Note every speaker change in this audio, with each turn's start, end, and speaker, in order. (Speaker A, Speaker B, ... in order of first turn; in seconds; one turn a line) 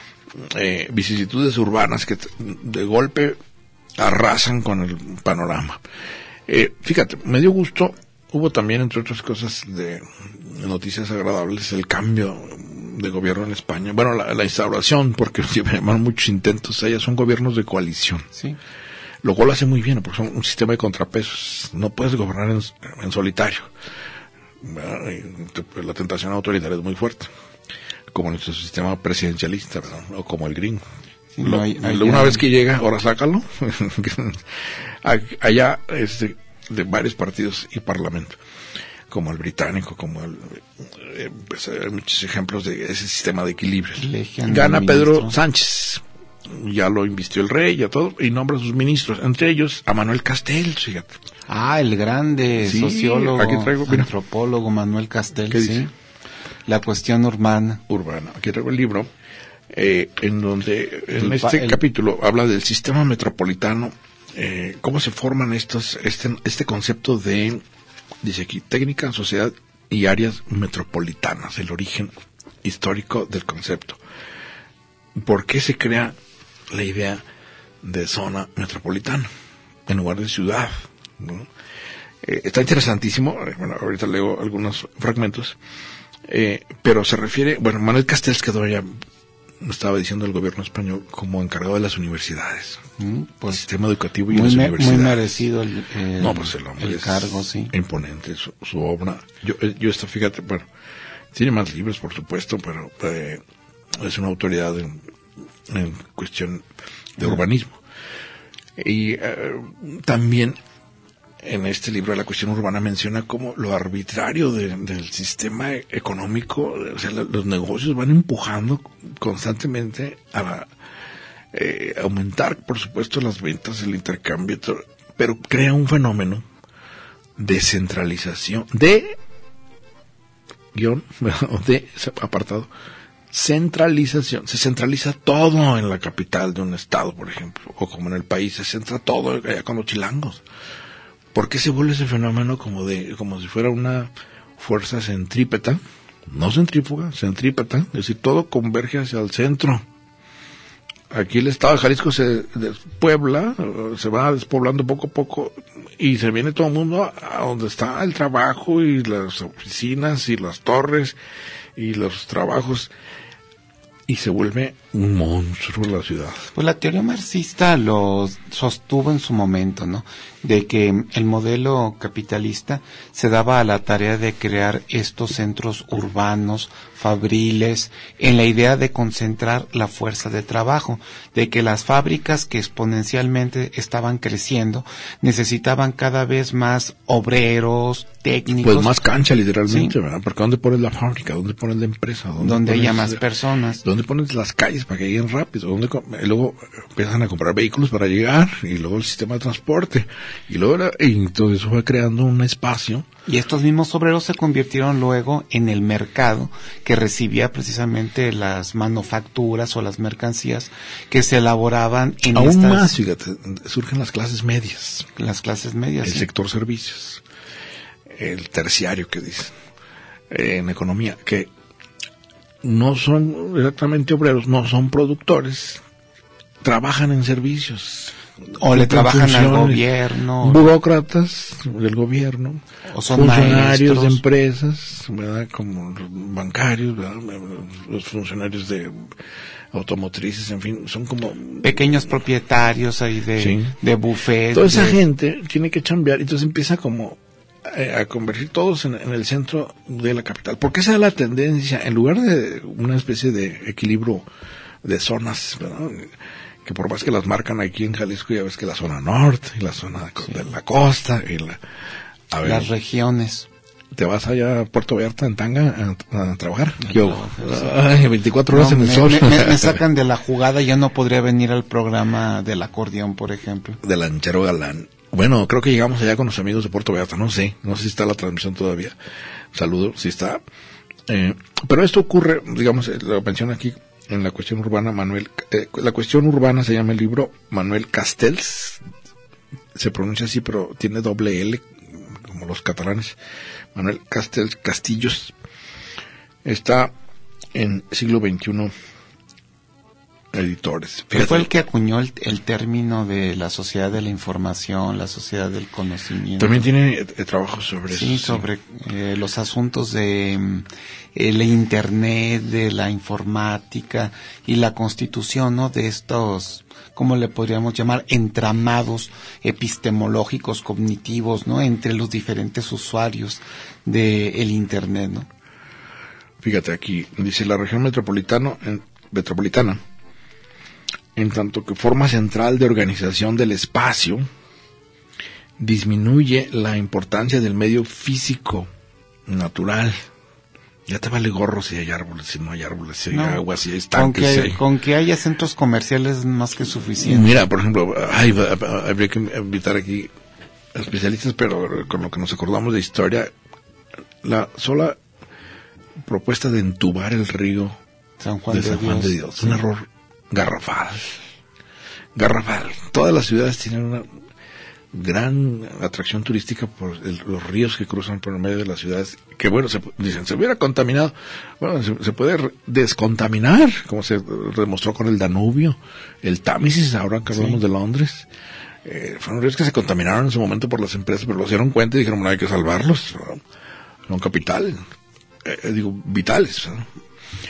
Speaker A: 0.3-3.4
Speaker A: 4.0-5.8
Speaker A: 6.5-18.3
Speaker A: 19.2-23.7
Speaker A: 24.6-27.3
Speaker A: 28.1-30.8
Speaker B: 31.3-32.4
Speaker A: 31.4-38.4
Speaker A: 39.1-51.2
Speaker B: 44.0-45.4
Speaker B: 51.5-55.9
Speaker A: 52.6-54.1
Speaker A: 55.5-55.9
Speaker B: 56.7-57.8
Speaker A: 57.9-59.1
Speaker A: 59.7-67.6
Speaker B: 61.1-61.8
Speaker A: 68.2-72.1
Speaker A: 72.6-74.0
Speaker A: 75.2-76.1
Speaker A: 76.7-77.2
Speaker A: 77.8-79.3
Speaker A: 79.9-81.5
Speaker A: 82.2-85.6
Speaker A: 86.2-89.0
Speaker A: 89.6-92.8
Speaker B: 93.0-93.6
Speaker A: 93.5-95.4
Speaker B: 94.3-97.7
Speaker A: 96.2-100.7
Speaker A: 101.3-103.4
Speaker A: 103.9-105.0
Speaker A: 105.7-106.6
Speaker A: 107.2-107.8
Speaker A: 108.8-110.6
Speaker A: 111.4-120.7
Speaker A: 121.5-126.4
Speaker A: 127.4-129.2
Speaker A: 130.7-132.7
Speaker A: 133.3-140.4
Speaker A: 141.3-149.8
Speaker A: 151.1-161.2
Speaker A: 161.8-162.9
Speaker A: 164.1-166.5
Speaker B: 166.5-189.0
Speaker A: 188.6-193.2
Speaker B: 189.7-189.9
Speaker B: 192.4-193.8
Speaker A: 193.8-203.1
Speaker B: 203.3-212.9
Speaker A: 212.3-215.1
Speaker B: 215.2-216.3
Speaker A: 216.0-217.2
Speaker A: 218.1-219.5
Speaker A: 220.3-221.5
Speaker A: 222.6-225.8
Speaker A: 226.6-229.8
Speaker B: 228.6-230.7
Speaker A: 230.4-239.1
Speaker B: 232.9-234.2
Speaker A: 239.7-242.1
Speaker B: 241.6-245.0
Speaker A: 243.4-243.7
Speaker A: 244.5-254.3
Speaker A: 254.8-261.6
Speaker A: 262.3-262.7
Speaker B: 262.4-263.5
Speaker A: 263.9-269.8
Speaker B: 266.8-267.8
Speaker B: 268.5-273.8
Speaker A: 273.8-278.9
Speaker A: 279.5-280.4
Speaker A: 281.1-288.8
Speaker A: 289.7-293.2
Speaker A: 293.7-295.3
Speaker A: 296.4-296.9
Speaker A: 297.5-298.7
Speaker A: 300.3-301.5
Speaker B: 301.1-306.7
Speaker A: 306.4-308.4
Speaker B: 307.9-325.3
Speaker A: 326.4-329.8
Speaker A: 331.1-334.3
Speaker A: 335.6-338.7
Speaker A: 339.3-340.1
Speaker A: 340.9-344.6
Speaker B: 343.1-343.4
Speaker B: 343.9-347.4
Speaker A: 347.0-350.1
Speaker A: 350.7-353.3
Speaker A: 354.2-355.0
Speaker A: 356.0-357.8
Speaker B: 358.2-359.6
Speaker A: 358.5-361.2
Speaker A: 362.1-364.1
Speaker A: 364.9-378.3
Speaker B: 377.3-377.6
Speaker A: 378.8-383.4
Speaker A: 384.1-384.8
Speaker A: 385.4-386.9